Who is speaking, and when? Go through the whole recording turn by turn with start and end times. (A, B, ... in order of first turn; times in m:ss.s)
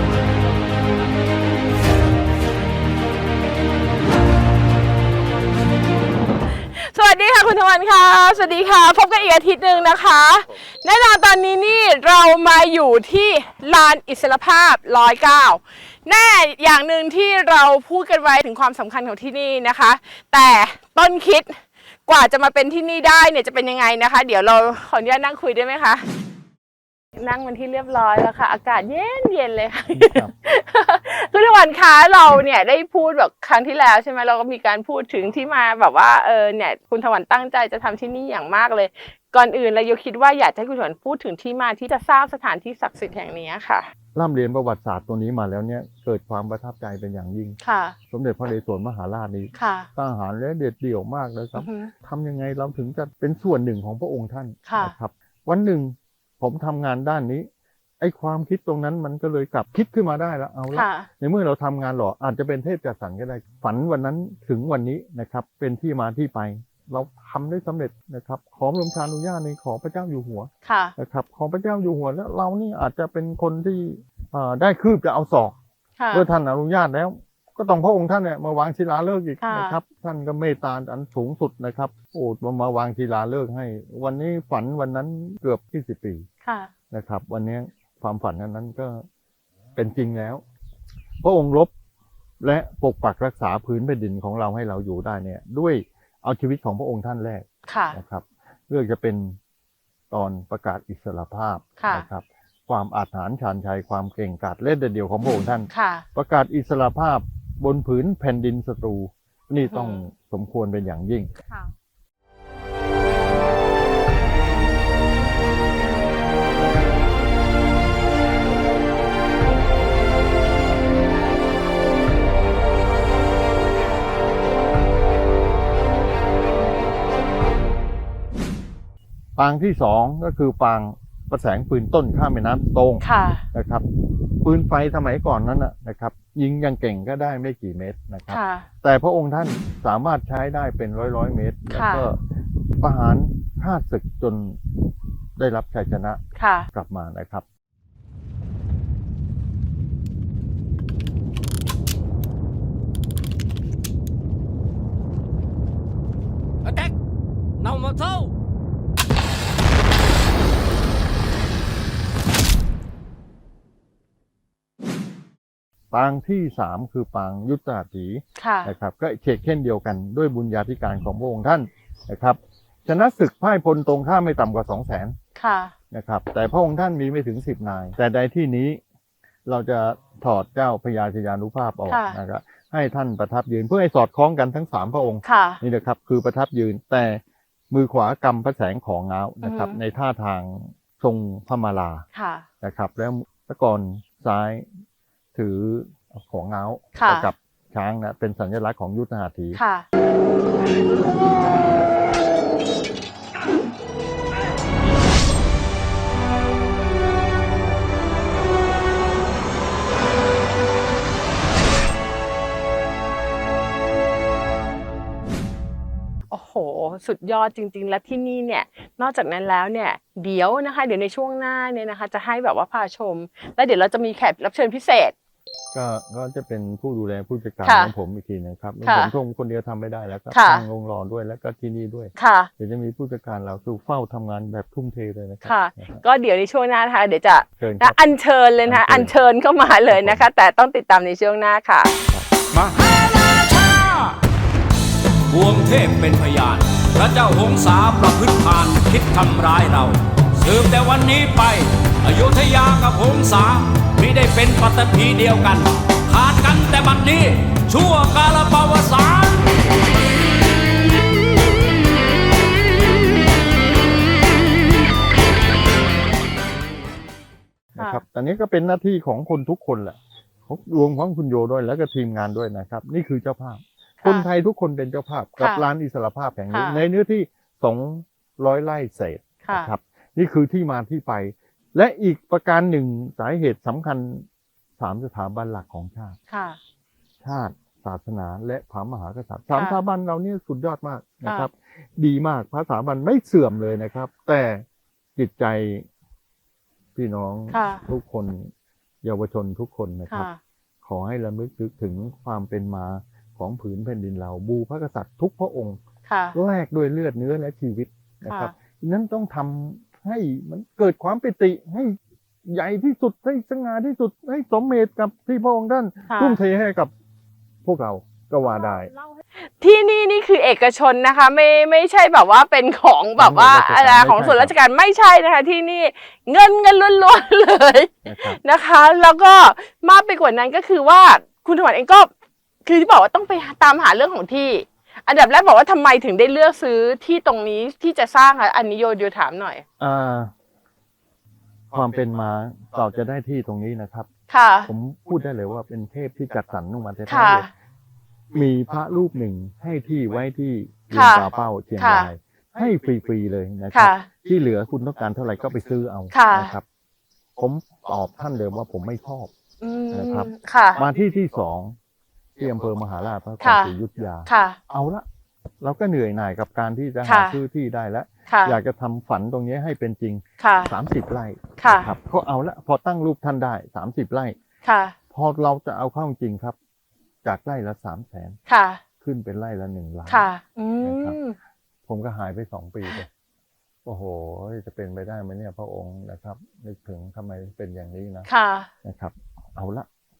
0:06.6-0:26.0 A
0:27.2-0:43.9 A
0:30.0-0:30.3 B
0:44.1-0:47.6 B
0:47.6-0:48.0 A
0:48.1-0:57.5 B
0:49.5-0:49.9 A
0:51.6-0:51.9 A
0:54.6-0:54.9 A
0:58.0-1:15.6 B
1:00.7-1:01.1 A
1:10.6-1:10.9 A
1:16.0-1:16.2 A
1:16.1-1:26.2 B
1:19.4-1:19.8 A
1:26.4-1:26.7 A
1:26.9-1:29.0 B
1:29.7-1:30.4 B
1:31.2-1:31.7 B
1:32.4-1:39.4 B
1:37.7-1:38.0 A
1:40.1-1:51.3 B
1:41.8-1:42.0 A
1:45.7-1:46.0 A
1:49.7-1:50.0 A
2:09.4-2:22.2 B
2:13.0-2:13.4 A
2:18.3-2:18.7 A
2:21.7-2:22.0 A
2:22.8-2:24.7 B
2:25.4-2:26.2 B
2:26.4-2:26.7 A
2:26.7-2:27.4 B
2:36.6-2:36.9 C
2:37.6-2:38.3 C
2:45.9-2:55.2 B
2:48.4-2:48.7 A
2:55.4-2:55.7 A
2:55.9-2:58.8 B
2:59.4-3:12.0 B
3:01.9-3:02.2 A
3:05.2-3:05.6 A
3:09.4-3:09.8 A
3:12.1-3:12.4 A
3:12.6-3:14.7 B
3:15.3-3:19.6 B
3:16.9-3:17.3 A
3:19.5-3:19.8 A
3:36.3-3:45.1 A
3:45.7-3:56.0 B
3:47.6-3:47.9 A
3:48.8-3:49.1 A
3:50.3-3:50.6 A
3:52.2-3:52.5 A
3:55.4-4:01.9 A
3:57.6-3:58.0 B
3:58.6-3:59.1 B
3:59.9-4:00.2 B
4:02.5-4:04.2 C
4:05.3-4:19.6 C
4:27.7-4:44.2 B
4:34.0-4:34.3 A
4:36.5-4:36.8 A
4:39.4-4:39.7 A
4:44.8-4:46.2 B
4:46.3-4:46.6 A
4:47.2-4:54.6 B
4:55.2-4:55.9 B
4:56.9-4:58.5 B
4:57.5-4:57.8 A
4:59.0-5:00.3 B
5:00.1-5:00.4 A
5:00.8-5:05.8 B
5:06.1-5:06.4 A
5:06.3-5:16.9 B
5:08.2-5:08.5 A
5:16.1-5:16.4 A
5:17.6-5:18.9 B
5:19.4-5:32.1 A
5:23.2-5:24.5 B
5:28.0-5:28.4 B
5:32.6-5:39.6 A
5:39.8-5:40.3 B
5:41.7-5:44.1 B
5:44.3-5:44.7 A
5:44.6-5:47.5 B
5:47.1-5:47.5 A
5:48.3-5:56.6 B
5:50.9-5:52.1 A
5:53.7-5:54.1 A
5:56.1-5:56.5 A
5:57.4-5:59.3 B
5:59.6-6:00.9 A
5:59.9-6:01.8 B
6:02.4-6:05.0 B
6:03.4-6:03.7 A
6:04.3-6:04.6 A
6:05.6-6:14.4 B
6:07.0-6:07.4 A
6:08.3-6:08.6 A
6:10.4-6:10.7 A
6:11.6-6:11.9 A
6:14.6-6:15.0 A
6:15.1-6:16.6 B
6:17.2-6:18.4 B
6:18.5-6:18.8 A
6:19.0-6:20.3 B
6:20.1-6:21.4 A
6:20.8-6:21.2 B
6:21.9-6:23.1 B
6:23.8-6:28.3 B
6:28.2-6:28.7 A
6:28.8-6:29.8 B